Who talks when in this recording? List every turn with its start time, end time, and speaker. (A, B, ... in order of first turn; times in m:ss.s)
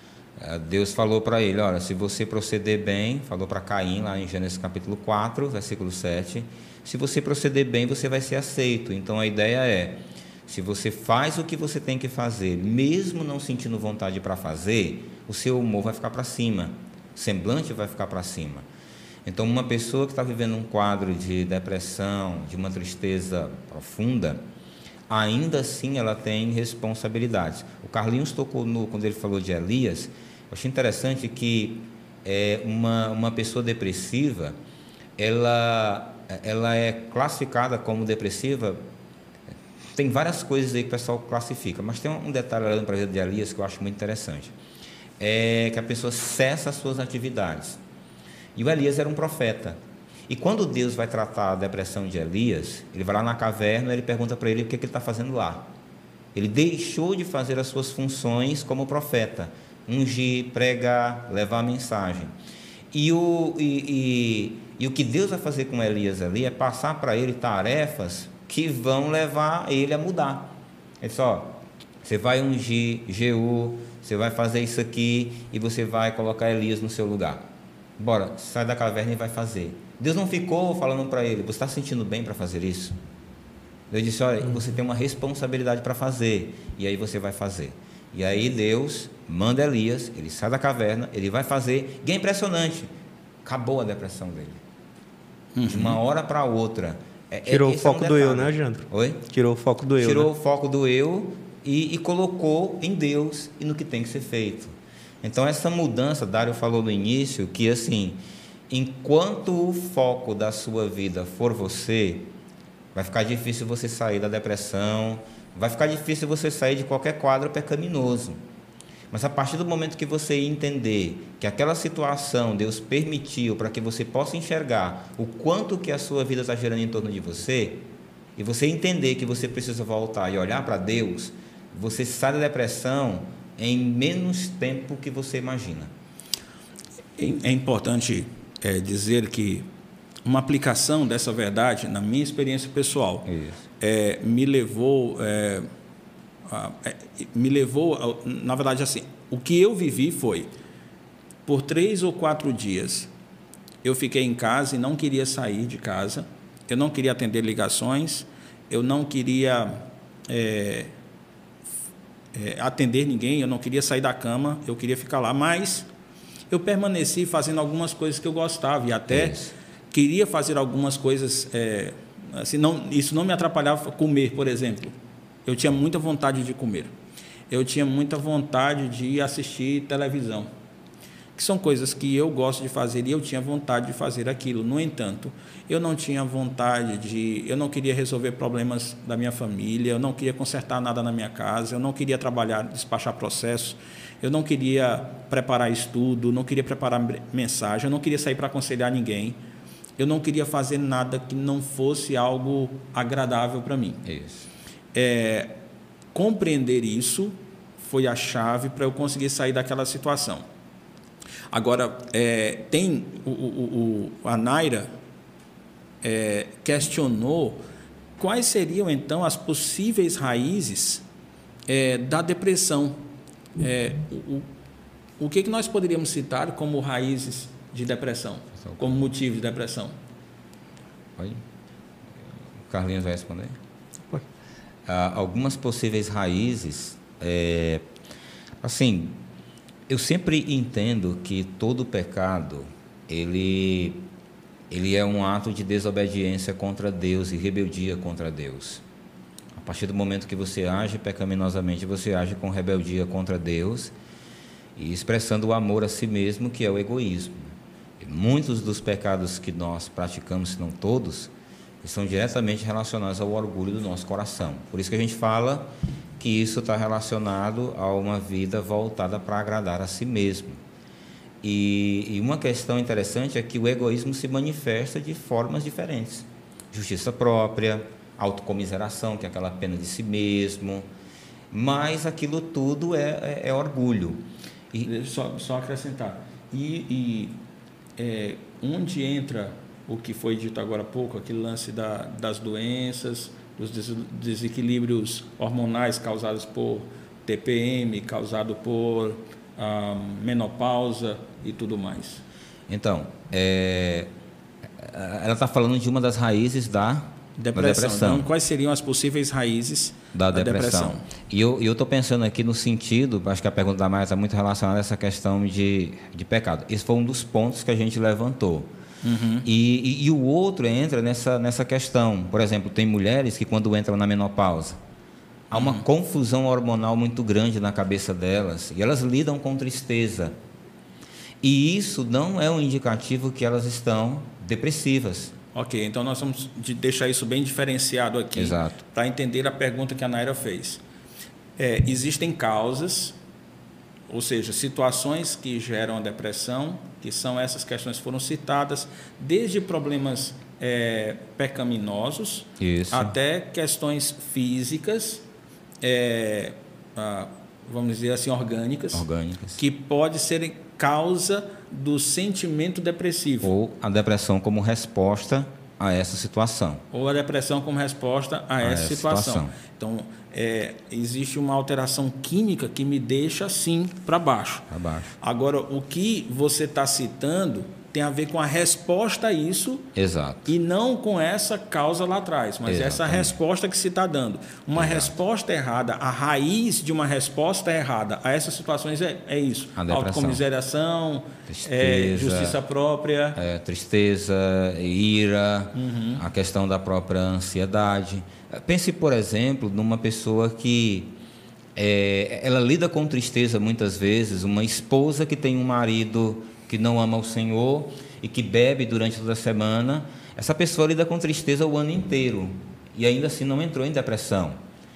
0:00.4-0:18.6 A
0:19.2-0:24.4 A
0:25.1-0:34.6 A
0:35.2-0:38.8 A
0:39.9-0:44.5 A
0:45.2-0:47.8 A
0:48.6-0:55.7 A
0:56.3-1:02.3 A
1:02.9-1:17.4 A
1:18.0-1:23.0 A
1:23.9-1:32.9 A
1:33.4-1:34.6 A
1:35.5-1:36.0 B
1:35.6-1:39.2 A
1:37.4-1:40.3 C
1:40.0-1:52.3 A
1:52.9-1:58.4 A
1:59.1-2:07.8 A
2:08.4-2:15.9 A
2:17.2-2:19.7 B
2:20.2-2:23.3 B
2:23.3-2:23.6 A
2:23.8-2:25.7 B
2:26.4-2:30.5 B
2:31.4-2:33.1 B
2:33.8-2:40.9 B
2:42.3-2:45.9 B
2:46.5-2:49.4 B
2:49.1-2:49.5 A
2:49.9-2:54.9 B
2:55.4-2:56.9 B
2:57.5-3:00.5 B
3:01.3-3:19.4 B
3:20.0-3:24.0 B
3:24.0-3:24.5 A
3:24.9-3:25.6 B
3:26.1-3:30.4 B
3:31.5-3:34.9 B
3:36.0-3:37.6 B
3:38.2-3:41.0 B
3:41.7-3:43.0 B
3:43.6-3:44.5 B
3:45.2-3:50.0 B
3:48.6-3:49.1 A
3:51.2-3:51.4 A
3:52.7-3:53.6 A
3:54.9-3:57.8 A
3:58.6-3:59.2 A
3:59.9-4:04.0 A
4:04.7-4:08.8 A
4:09.5-4:13.9 A
4:14.8-4:21.3 A
4:21.8-4:30.6 A
4:31.4-4:40.8 A
4:41.5-4:44.9 A
4:44.8-4:47.4 B
4:48.0-5:02.2 B
5:02.7-5:04.1 A
5:04.8-5:08.3 A
5:07.4-5:11.1 B
5:10.1-5:18.7 A
5:19.0-5:19.4 B
5:19.4-5:24.8 A
5:25.5-5:25.8 B
5:25.5-5:30.3 A
5:31.4-5:35.3 A
5:35.5-5:40.8 B
5:38.3-5:38.8 A
5:41.6-5:43.2 B
5:44.1-5:55.2 B
5:52.6-5:53.1 A
5:55.8-5:59.0 B
5:58.9-5:59.6 A
5:59.6-6:03.5 B
6:03.4-6:06.8 A
6:06.9-6:14.6 B
6:08.6-6:09.5 A
6:14.7-6:15.1 A
6:15.2-6:19.9 B
6:20.0-6:20.5 A
6:20.5-6:33.4 B
6:22.6-6:23.4 A
6:24.7-6:25.1 A
6:29.8-6:30.4 A
6:31.5-6:32.6 A
6:33.4-6:41.2 A
6:35.7-6:36.2 B
6:41.8-6:54.6 A